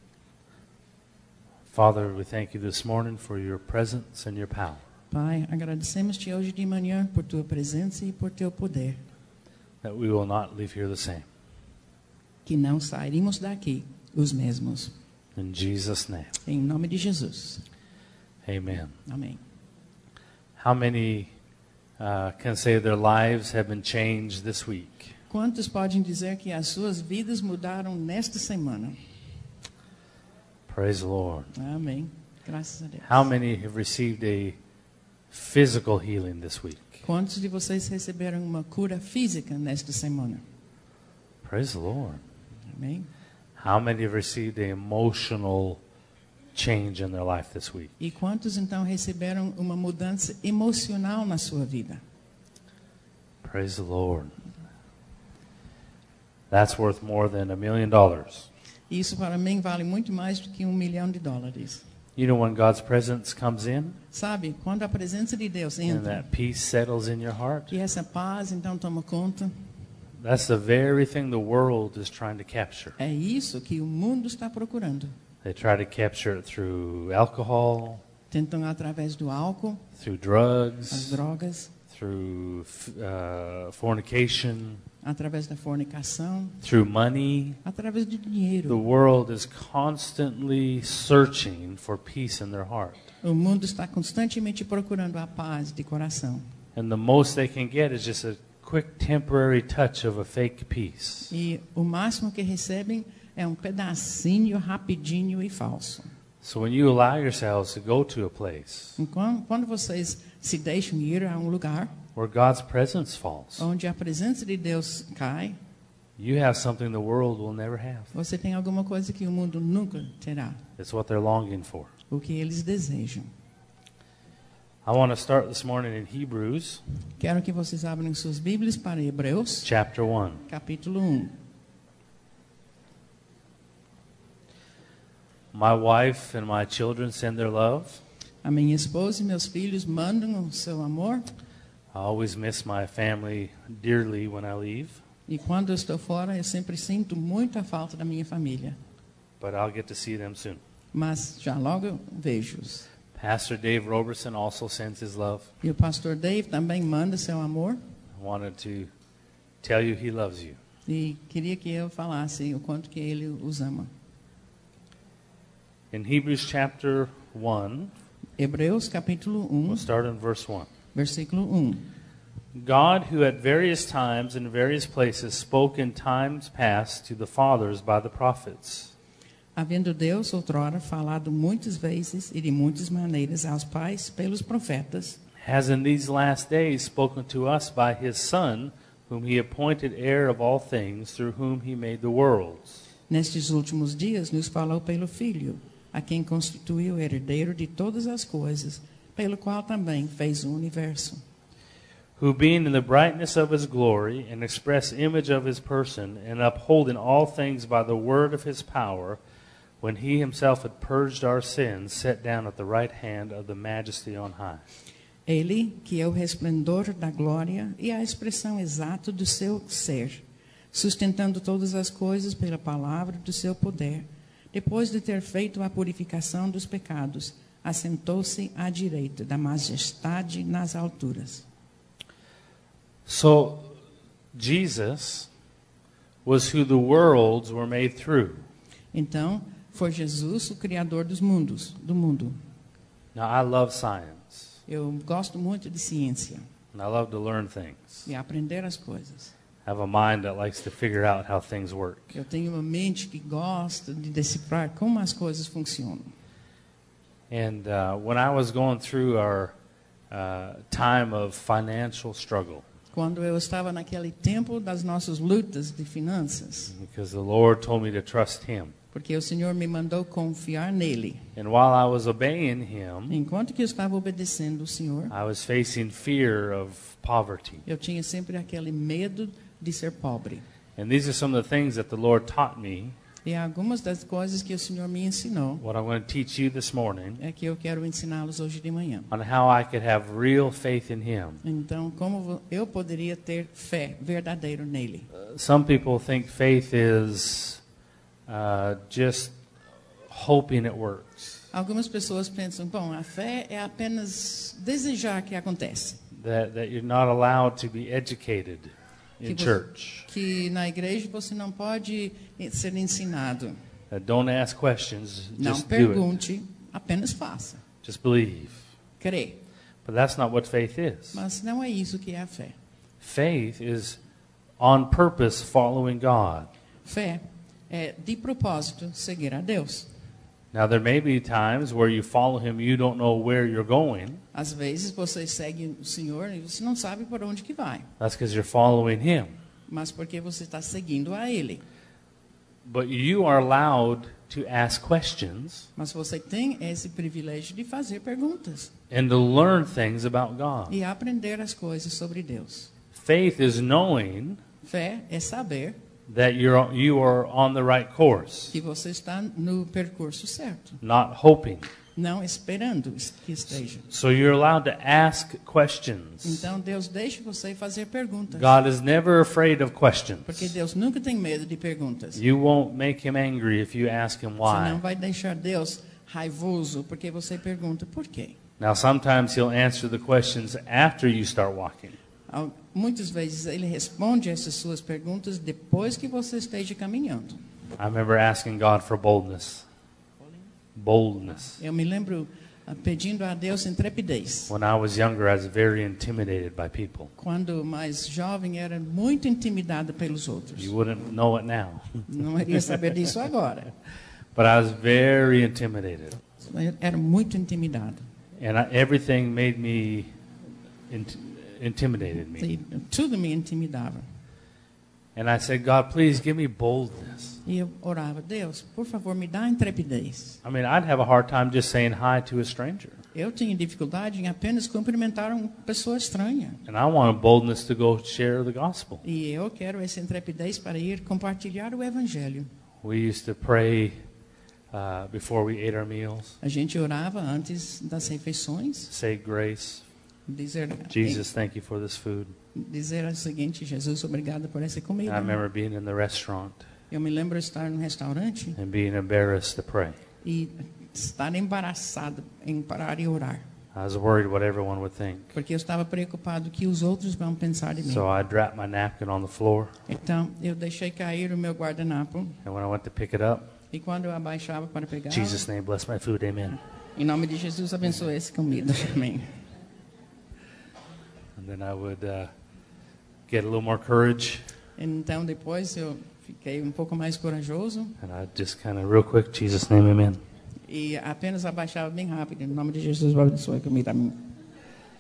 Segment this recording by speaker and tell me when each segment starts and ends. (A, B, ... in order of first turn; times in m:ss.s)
0:01.7-0:04.8 A
0:05.1-0:09.0 B
0:09.8-0:11.2 A
0:12.4-0:14.9 B
0:15.4-0:16.4 A
0:16.4-0:17.6 B
0:18.4-0:18.9 A
0:19.0-0:19.4 B
0:20.6-0:21.3 A
0:22.0-0:25.2 A
0:25.3-0:29.0 B
0:30.7-0:31.5 A
0:31.5-0:33.3 B
0:33.0-0:34.6 A
0:35.3-0:37.0 A
0:37.0-0:40.4 B
0:41.4-0:42.2 A
0:42.7-0:43.1 B
0:43.6-0:45.8 A
0:46.5-0:48.0 A
0:48.0-0:52.0 B
0:53.4-0:54.3 A
0:56.5-0:58.5 A
0:58.9-1:01.8 B
1:02.2-1:04.0 A
1:04.1-1:06.2 B
1:05.9-1:07.7 A
1:07.7-1:09.5 B
1:10.2-1:13.0 A
1:13.0-1:15.1 B
1:15.4-1:18.0 A
1:18.3-1:19.8 B
1:19.9-1:21.2 A
1:20.9-1:21.7 B
1:21.9-1:24.8 A
1:25.0-1:26.6 B
1:26.6-1:27.6 A
1:27.6-1:28.8 B
1:28.7-1:33.1 A
1:33.2-1:36.5 B
1:36.8-1:41.3 A
1:41.3-1:46.1 B
1:46.4-1:49.0 A
1:49.0-1:52.0 B
1:52.2-1:53.6 A
1:53.6-1:55.6 B
1:56.2-1:58.1 A
1:58.1-2:00.6 B
2:00.8-2:01.9 A
2:02.1-2:03.3 B
2:04.9-2:06.8 A
2:07.2-2:09.7 B
2:09.6-2:10.4 A
2:10.5-2:11.3 B
2:15.5-2:18.0 A
2:18.4-2:21.2 B
2:21.9-2:25.0 A
2:25.3-2:28.8 B
2:29.4-2:30.6 A
2:30.9-2:32.9 B
2:33.1-2:35.5 A
2:35.6-2:37.8 B
2:38.2-2:38.9 A
2:39.6-2:40.6 A
2:40.9-2:43.9 B
2:45.9-2:47.9 A
2:48.4-2:49.9 B
2:49.7-2:50.7 A
2:50.9-2:51.9 B
2:52.6-2:58.9 A
2:59.6-3:05.2 B
3:05.4-3:12.8 A
3:13.1-3:21.2 B
3:22.2-3:29.2 A
3:29.8-3:34.6 A
3:35.3-3:51.4 B
3:53.1-3:53.8 A
3:54.3-3:55.3 A
3:56.2-3:58.4 A
3:58.9-4:02.4 B
4:03.1-4:04.6 A
4:04.7-4:06.4 B
4:06.7-4:08.1 A
4:08.1-4:09.3 B
4:09.6-4:12.2 A
4:12.1-4:16.1 B
4:17.3-4:19.6 A
4:20.1-4:22.6 A
4:22.9-4:26.7 B
4:26.7-4:28.8 A
4:28.9-4:31.3 B
4:31.4-4:33.2 A
4:33.1-4:35.1 B
4:35.1-4:37.6 A
4:37.6-4:40.4 B
4:40.8-4:43.0 A
4:43.2-4:45.6 B
4:45.6-4:47.2 A
4:47.2-4:49.1 B
4:49.1-4:51.4 A
4:51.4-4:55.1 B
4:55.1-4:57.6 A
4:58.3-4:59.4 A
5:00.1-5:01.4 A
5:01.5-5:06.0 B
5:06.1-5:10.1 A
5:09.2-5:13.6 B
5:13.9-5:16.1 A
5:15.4-5:17.6 B
5:17.8-5:18.7 A
5:19.0-5:19.4 B
5:19.8-5:21.2 A
5:21.1-5:22.6 B
5:23.0-5:24.0 A
5:24.6-5:26.5 A
5:26.8-5:29.9 B
5:30.5-5:34.2 A
5:34.3-5:37.9 B
5:38.0-5:39.3 A
5:39.7-5:41.6 B
5:42.6-5:45.7 A
5:45.8-5:48.7 B
5:48.9-5:50.8 A
5:50.7-5:52.7 B
5:52.9-5:54.4 A
5:54.6-5:55.8 B
5:56.1-5:58.5 A
5:58.5-6:00.8 B
6:00.8-6:01.7 A
6:01.9-6:03.8 B
6:03.9-6:06.5 A
6:06.2-6:08.6 B
6:08.3-6:10.5 A
6:10.3-6:12.2 B
6:12.1-6:14.8 A
6:14.4-6:18.4 B
6:18.6-6:21.9 A
6:22.3-6:27.4 B
6:27.8-6:29.6 A
6:30.8-6:31.6 A
6:31.6-6:34.5 B
6:34.5-6:37.1 A
6:37.2-6:40.7 B
6:40.6-6:42.1 A
6:42.1-6:43.7 B
6:44.4-6:46.2 A
6:46.4-6:48.0 B
6:48.4-6:50.1 A
6:50.9-6:52.5 A
6:52.4-6:54.0 B
6:55.2-6:57.4 A
6:57.4-7:00.4 B
7:00.4-7:03.0 A
7:03.1-7:06.6 B
7:06.6-7:09.0 A
7:09.0-7:12.5 B
7:12.8-7:14.0 A
7:14.7-7:16.4 A
7:16.4-7:18.9 B
7:18.9-7:19.8 A
7:20.3-7:21.2 B
7:20.9-7:22.4 A
7:22.5-7:25.4 B
7:25.0-7:26.6 A
7:26.9-7:28.6 B
7:28.6-7:30.0 A
7:30.2-7:33.5 B
7:33.7-7:35.3 A
7:35.3-7:38.1 B
7:37.8-7:39.7 A
7:39.9-7:42.4 B
7:42.4-7:43.5 A
7:43.7-7:45.4 B
7:45.1-7:46.6 A
7:47.0-7:49.3 B
7:51.4-7:52.3 A
7:53.3-7:54.5 A
7:54.8-7:58.0 B
7:58.0-8:00.2 A
8:00.7-8:04.3 B